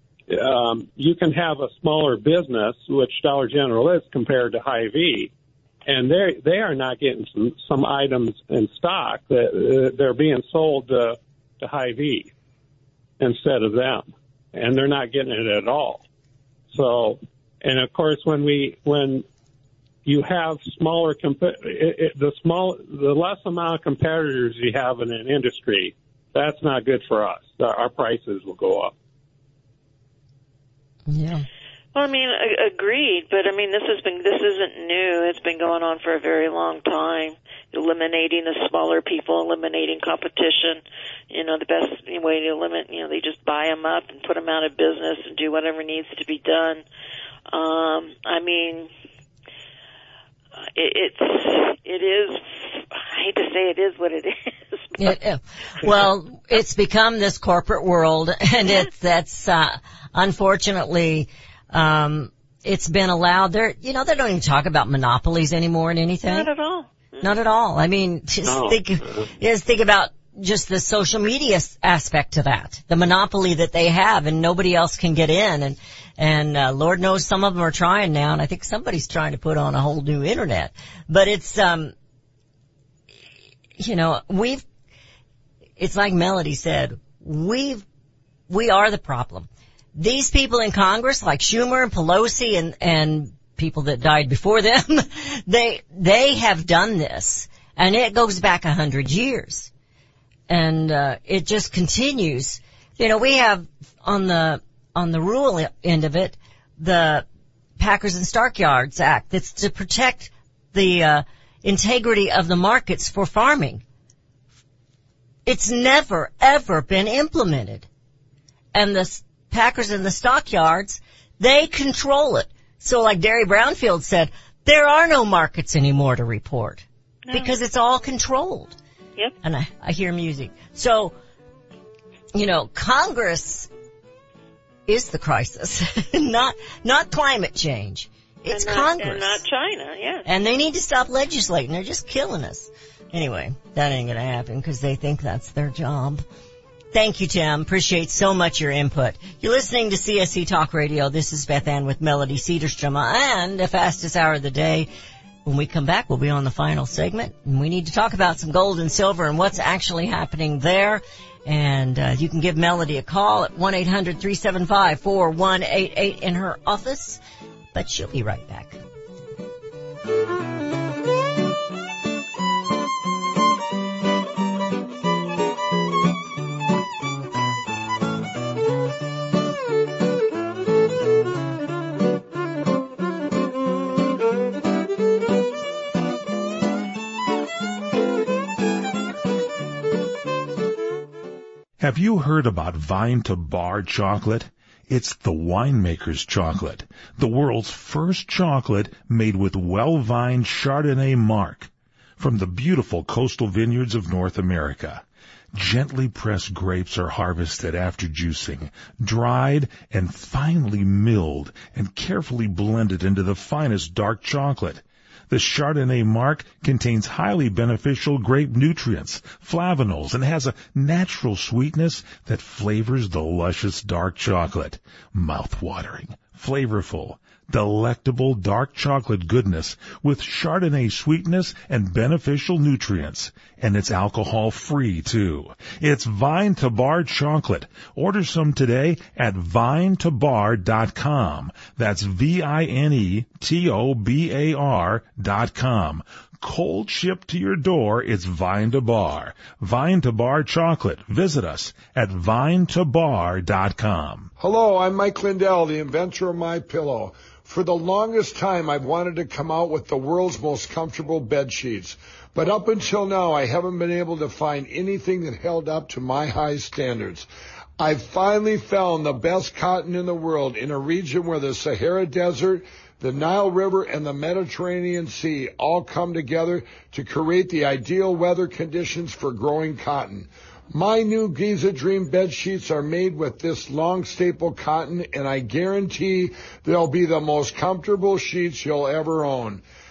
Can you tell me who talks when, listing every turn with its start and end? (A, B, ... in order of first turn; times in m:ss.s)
0:00.3-0:05.3 A
0:05.9-0:12.3 A
0:13.2-0:16.0 A
0:16.7-0:19.2 A
0:20.0-0:28.9 A
0:31.1-0:31.4 B
0:31.9-0:46.8 C
0:47.5-0:48.9 C
0:50.8-0:55.1 C
0:55.0-1:06.5 B
1:06.2-1:07.3 C
1:07.2-1:21.9 B
1:08.4-1:09.3 A
1:23.8-1:24.6 B
1:25.8-1:27.8 B
1:28.5-1:39.7 B
1:40.5-1:47.2 B
1:47.8-1:53.8 B
1:55.4-1:57.9 B
1:58.7-2:08.8 B
2:07.3-2:07.5 C
2:09.4-2:11.1 B
2:12.3-2:13.7 B
2:14.9-2:19.4 B
2:18.5-2:20.2 C
2:20.2-2:26.2 B
2:26.9-2:34.9 B
2:35.4-2:47.2 B
2:47.7-2:48.8 B
3:11.8-4:14.3 D
4:14.4-4:27.2 E
4:27.8-4:49.6 E